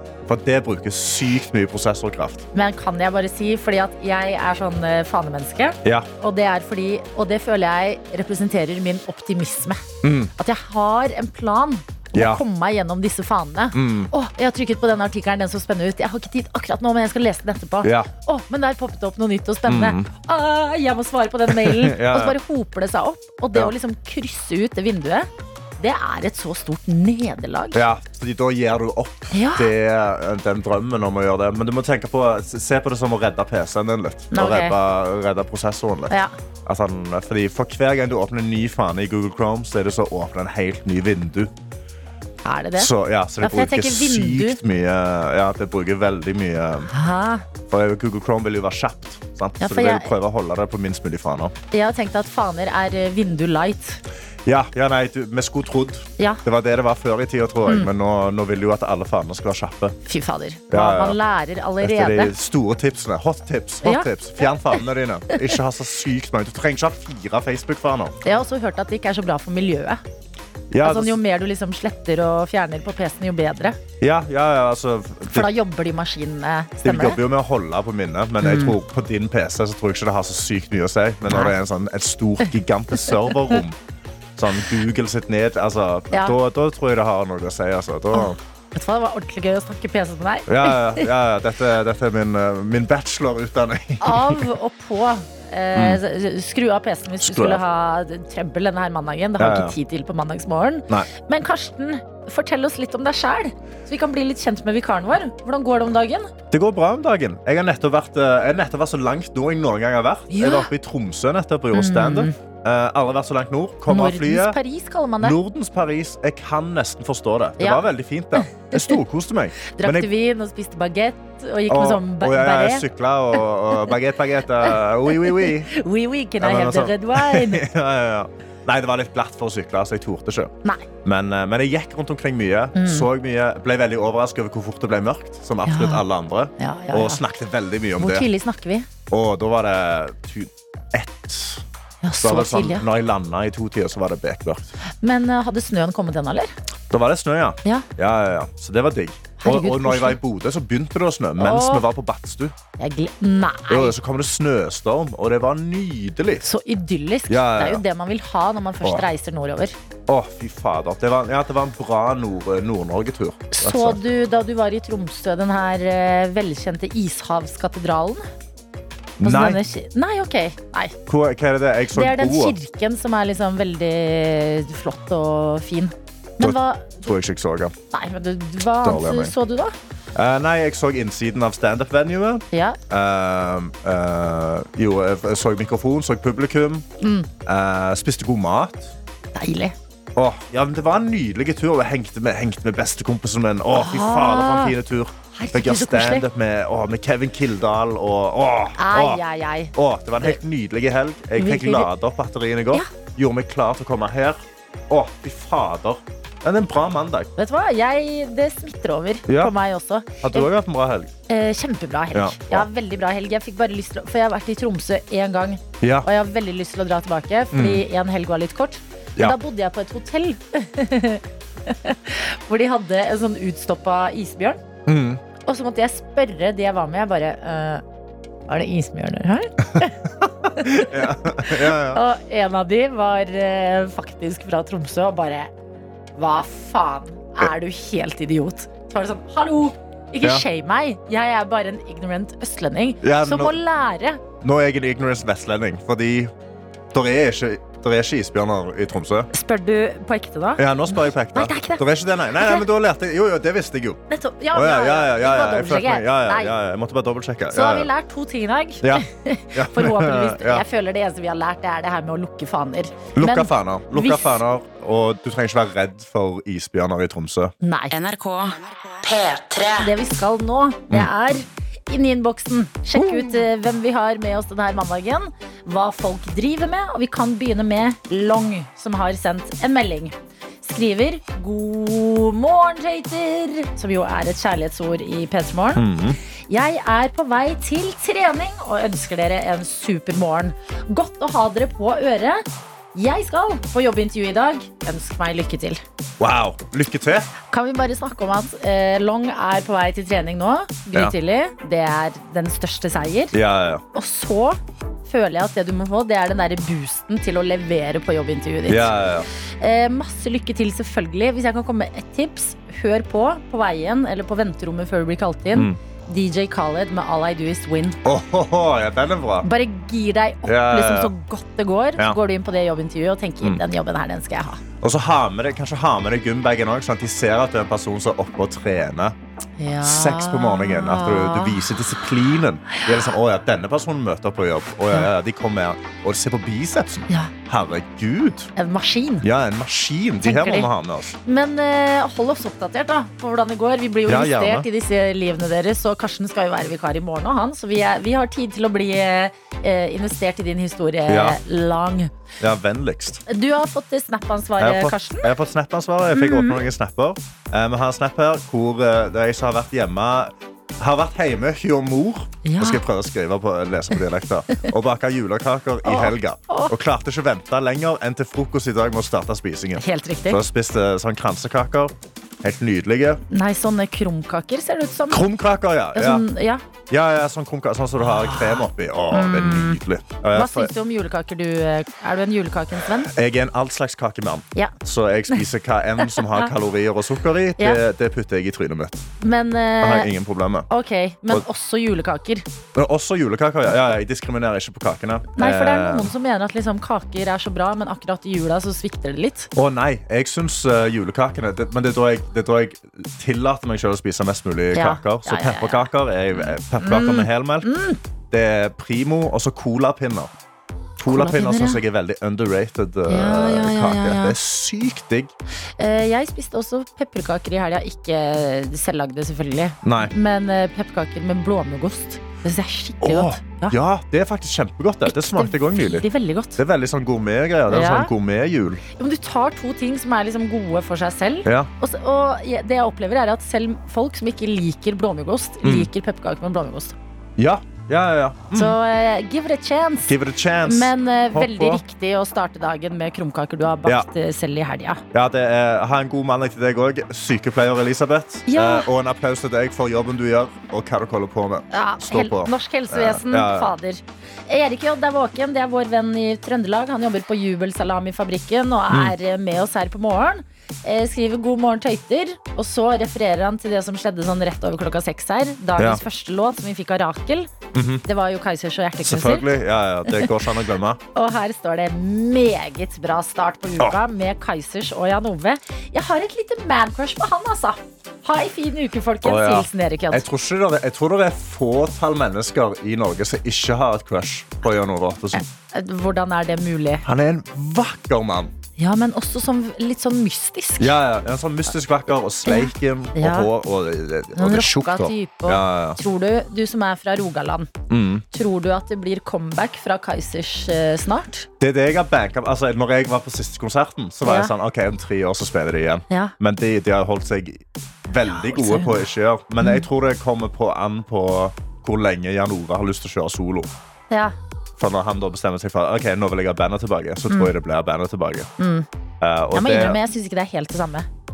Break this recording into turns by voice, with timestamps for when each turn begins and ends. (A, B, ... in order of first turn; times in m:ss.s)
0:00.2-0:02.4 A
0:02.5-0:09.8 B
0:05.8-0:06.1 A
0:10.0-0:10.3 A
0:10.4-0:27.8 B
0:12.1-0:12.4 A
0:13.7-0:14.1 A
0:17.8-0:18.1 A
0:19.7-0:20.1 A
0:21.5-0:22.4 A
0:27.7-0:36.1 A
0:29.3-0:29.7 B
0:34.3-0:34.8 B
0:36.6-0:41.5 A
0:42.4-0:44.6 B
0:42.8-0:46.9 A
0:46.9-0:47.4 B
0:47.6-0:51.5 A
0:49.6-0:50.1 B
0:51.7-0:54.0 B
0:54.4-1:00.0 A
1:00.0-1:02.3 B
1:00.7-1:01.2 A
1:01.8-1:08.2 A
1:03.8-1:04.8 B
1:05.3-1:05.6 B
1:08.2-1:10.0 B
1:10.7-1:11.2 A
1:10.8-1:13.8 B
1:14.0-1:15.5 A
1:15.2-1:17.2 B
1:16.8-1:23.8 A
1:18.4-1:18.8 B
1:21.3-1:21.5 B
1:23.0-1:23.4 B
1:24.4-1:28.4 A
1:28.1-1:31.1 B
1:30.5-1:34.4 A
1:34.0-1:46.3 B
1:35.7-1:36.0 A
1:37.2-1:37.6 A
1:39.4-1:39.8 A
1:46.5-1:54.6 A
1:50.3-1:50.7 B
1:51.7-1:52.3 B
1:53.9-1:55.4 B
1:55.2-2:00.1 A
1:57.6-1:59.0 B
1:59.7-2:02.8 B
2:01.7-2:05.7 A
2:04.7-2:07.6 B
2:06.4-2:18.3 A
2:12.7-2:13.1 B
2:15.6-2:16.0 B
2:16.6-2:17.2 B
2:18.0-2:18.9 B
2:19.1-2:21.6 A
2:22.0-2:22.8 B
2:22.2-2:24.7 A
2:25.0-2:26.5 B
2:26.9-2:32.5 A
2:29.4-2:30.2 B
2:31.4-2:31.8 B
2:32.8-2:33.9 B
2:33.7-2:36.4 A
2:36.4-2:39.7 B
2:37.3-2:37.8 A
2:40.1-2:44.0 A
2:43.5-2:48.3 B
2:49.2-2:49.6 A
2:49.2-2:51.0 B
2:51.1-2:52.6 A
2:51.9-2:57.1 B
2:56.4-2:57.7 A
2:57.9-2:59.7 B
2:58.8-2:59.3 A
3:00.1-3:06.8 A
3:02.5-3:02.8 B
3:07.0-3:07.3 B
3:07.4-3:08.9 A
3:09.3-3:09.7 B
3:10.1-3:19.2 A
3:13.7-3:14.7 B
3:15.3-3:16.2 B
3:18.8-3:20.4 B
3:19.7-3:27.3 A
3:21.4-3:21.9 B
3:27.4-3:30.5 B
3:29.3-3:29.5 A
3:30.2-3:31.1 A
3:31.3-3:44.6 B
3:32.1-3:32.7 A
3:35.8-3:36.1 A
3:37.5-3:37.8 A
3:44.8-3:45.2 A
3:45.4-3:47.8 B
3:48.5-3:50.0 B
3:50.2-3:52.0 A
3:50.6-3:55.5 B
3:56.2-4:04.2 B
4:03.0-4:03.6 A
4:04.4-4:06.3 A
4:06.9-4:09.3 A
4:09.3-4:11.8 B
4:10.6-4:14.0 A
4:12.3-4:12.6 B
4:14.1-4:16.5 B
4:14.5-4:17.9 A
4:17.5-4:24.4 B
4:18.8-4:20.6 A
4:23.1-4:27.5 A
4:27.6-4:28.0 B
4:27.9-4:29.9 C
4:29.8-4:45.8 B
4:32.9-4:33.4 A
4:45.7-4:46.2 A
4:46.5-4:55.8 B
4:56.2-4:57.3 A
4:57.5-5:03.3 B
5:03.3-5:03.8 A
5:03.9-5:08.9 B
5:08.7-5:09.3 A
5:09.6-5:18.0 B
5:15.5-5:15.8 A
5:18.0-5:19.5 A
5:19.4-5:24.6 B
5:20.4-5:21.1 A
5:24.8-5:29.1 A
5:29.6-5:31.6 B
5:29.8-5:38.5 A
5:38.6-5:39.2 B
5:39.2-5:41.1 A
5:40.2-5:52.1 B
5:44.1-5:44.7 A
5:51.1-5:51.4 A
5:52.4-5:53.2 A
5:53.3-5:55.3 B
5:54.6-6:13.2 A
5:56.1-5:56.6 B
6:02.4-6:02.8 B
6:05.8-6:06.7 B
6:09.8-6:10.4 B
6:13.3-6:15.2 B
6:15.1-6:16.2 A
6:15.9-6:16.6 B
6:16.9-6:20.7 A
6:18.0-6:19.8 B
6:20.3-6:23.1 B
6:23.1-6:29.0 A
6:26.1-6:26.4 B
6:29.2-6:30.1 B
6:29.8-6:30.7 A
6:30.7-6:32.5 B
6:32.7-6:36.1 A
6:35.3-6:39.5 B
6:39.5-6:47.7 A
6:44.7-6:48.0 B
6:48.3-6:50.3 A
6:51.0-6:55.3 A
6:51.0-6:51.8 B
6:53.1-6:54.4 B
6:55.8-7:03.8 B
6:59.8-7:00.1 A
7:03.0-7:06.0 A
7:05.1-7:06.6 B
7:06.6-7:08.8 A
7:07.7-7:08.1 B
7:09.0-7:16.9 B
7:11.4-7:11.7 A
7:15.6-7:15.9 A
7:17.4-7:18.8 A
7:18.5-7:20.1 B
7:20.1-7:21.8 A
7:20.6-7:25.0 B
7:25.1-7:33.7 A
7:28.5-7:28.9 B
7:31.7-7:47.5 B
7:45.8-7:46.0 A
7:47.7-7:48.0 A
7:48.0-7:49.5 B
7:49.0-7:51.0 A
7:50.1-7:50.4 B
7:51.1-8:00.2 B
7:59.2-8:05.4 A
8:05.3-8:07.0 B
8:07.0-8:08.5 A
8:08.8-8:11.0 B
8:10.8-8:16.0 A
8:12.4-8:13.5 B
8:14.3-8:17.7 B
8:17.9-8:18.2 A
8:18.3-8:21.5 B
8:21.6-8:33.7 A
8:24.2-8:24.5 B
8:28.3-8:29.1 B
8:29.6-8:29.8 B
8:34.1-8:34.3 B
8:34.8-8:38.5 A
8:38.6-8:38.9 B
8:39.2-8:40.0 A
8:39.5-8:41.1 B